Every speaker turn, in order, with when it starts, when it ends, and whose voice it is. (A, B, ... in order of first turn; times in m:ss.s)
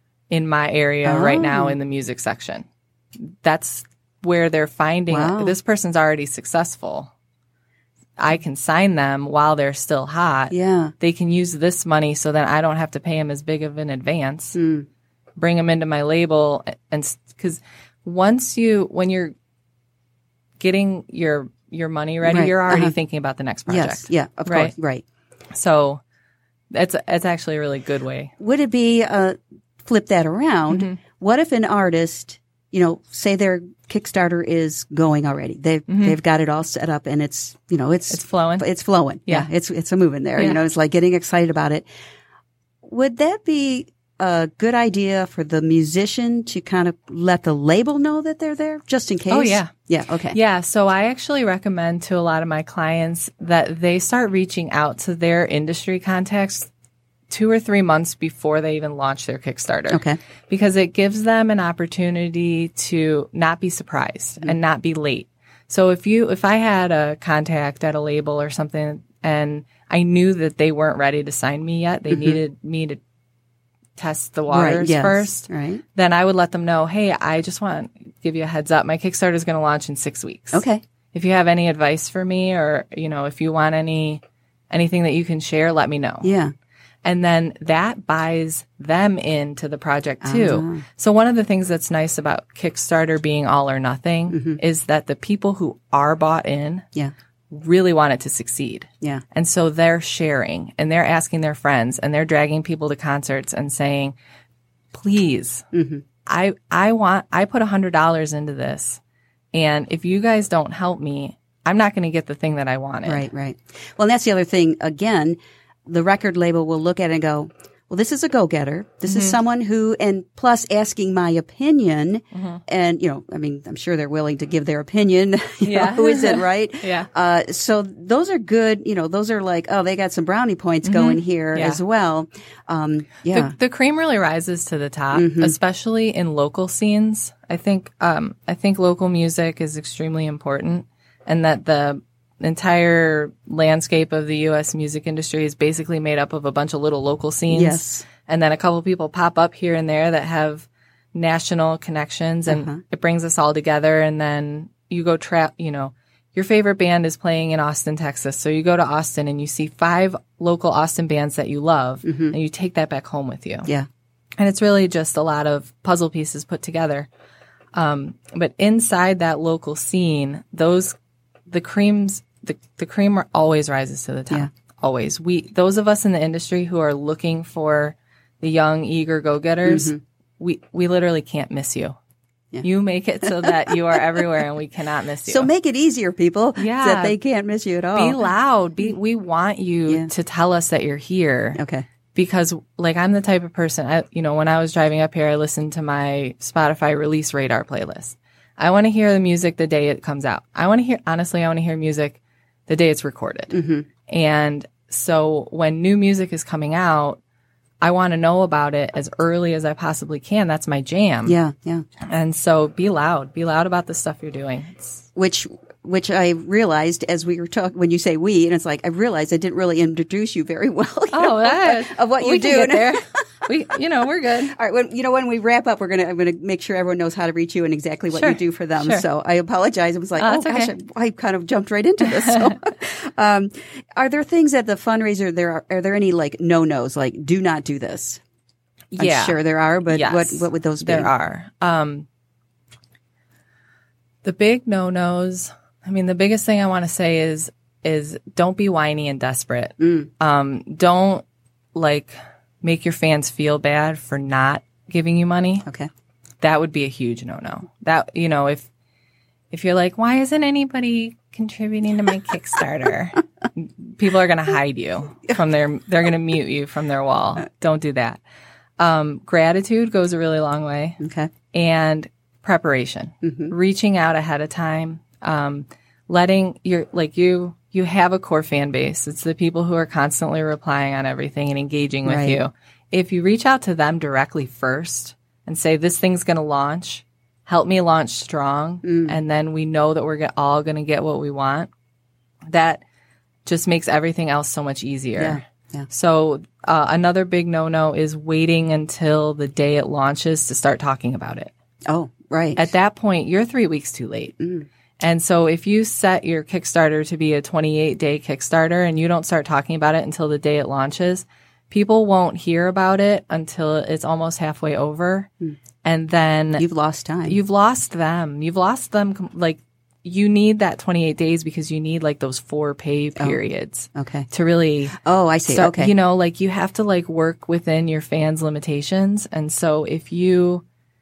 0:00.3-0:02.6 A
0:01.0-0:01.8 B
0:03.2-0:07.1 A
0:05.1-0:05.6 B
0:08.2-0:14.6 A
0:10.5-0:10.9 B
0:14.5-0:14.9 B
0:15.4-0:19.3 A
0:20.6-0:24.7 A
0:22.2-0:22.9 B
0:23.7-0:25.0 B
0:25.5-0:26.0 A
0:26.7-0:28.3 A
0:28.4-0:41.8 B
0:30.7-0:31.0 A
0:35.9-0:36.2 A
0:38.1-0:38.6 A
0:42.8-0:50.4 B
0:49.3-0:49.7 A
0:50.3-0:56.7 A
0:57.3-1:13.0 A
0:59.9-1:00.2 B
1:12.1-1:12.4 B
1:14.0-1:26.3 A
1:14.5-1:15.8 B
1:20.5-1:20.8 B
1:26.2-1:26.5 B
1:27.0-1:36.8 A
1:30.2-1:30.8 B
1:34.3-1:34.6 B
1:37.5-1:44.1 A
1:44.9-1:45.6 A
1:45.7-1:46.0 B
1:46.2-1:49.0 A
1:49.5-1:53.3 A
1:53.0-2:13.5 B
1:59.0-1:59.4 A
2:02.3-2:02.6 A
2:05.6-2:07.1 A
2:10.8-2:11.8 A
2:13.3-2:43.7 A
2:15.1-2:15.5 B
2:27.5-2:28.0 B
2:32.5-2:32.8 B
2:42.0-2:42.3 B
2:44.4-2:47.1 A
2:47.7-2:51.0 A
2:51.5-3:02.0 A
2:59.6-3:00.0 B
3:02.6-3:05.5 A
3:03.2-3:04.2 B
3:05.2-3:08.2 B
3:06.6-3:07.2 A
3:07.9-3:11.6 A
3:11.6-3:11.8 B
3:12.1-3:23.6 A
3:23.5-3:23.9 B
3:24.1-3:27.2 A
3:27.8-3:31.4 A
3:31.2-3:31.8 B
3:32.0-3:35.0 A
3:35.1-3:43.2 B
3:41.1-3:44.5 A
3:44.5-3:58.2 B
3:48.1-3:49.0 A
3:50.2-3:50.7 A
3:52.0-3:52.5 A
3:58.9-3:59.4 A
3:59.0-4:01.1 B
3:59.9-4:02.1 A
4:04.2-4:11.2 A
4:09.8-4:10.1 B
4:11.7-4:15.7 A
4:16.4-4:18.7 A
4:19.5-4:28.2 A
4:28.8-4:31.0 A
4:31.0-4:31.3 B
4:31.5-4:51.7 A
4:33.2-4:33.5 B
4:42.0-4:42.4 B
4:48.8-4:49.2 B
4:52.5-4:52.8 A
4:53.4-5:01.5 A
4:55.2-4:55.9 B
5:01.8-5:02.7 B
5:02.6-5:04.3 A
5:04.4-5:04.7 B
5:05.0-5:15.3 A
5:15.8-5:16.6 A
5:16.6-5:17.4 B
5:17.2-5:30.6 A
5:23.9-5:24.3 B
5:25.0-5:25.9 B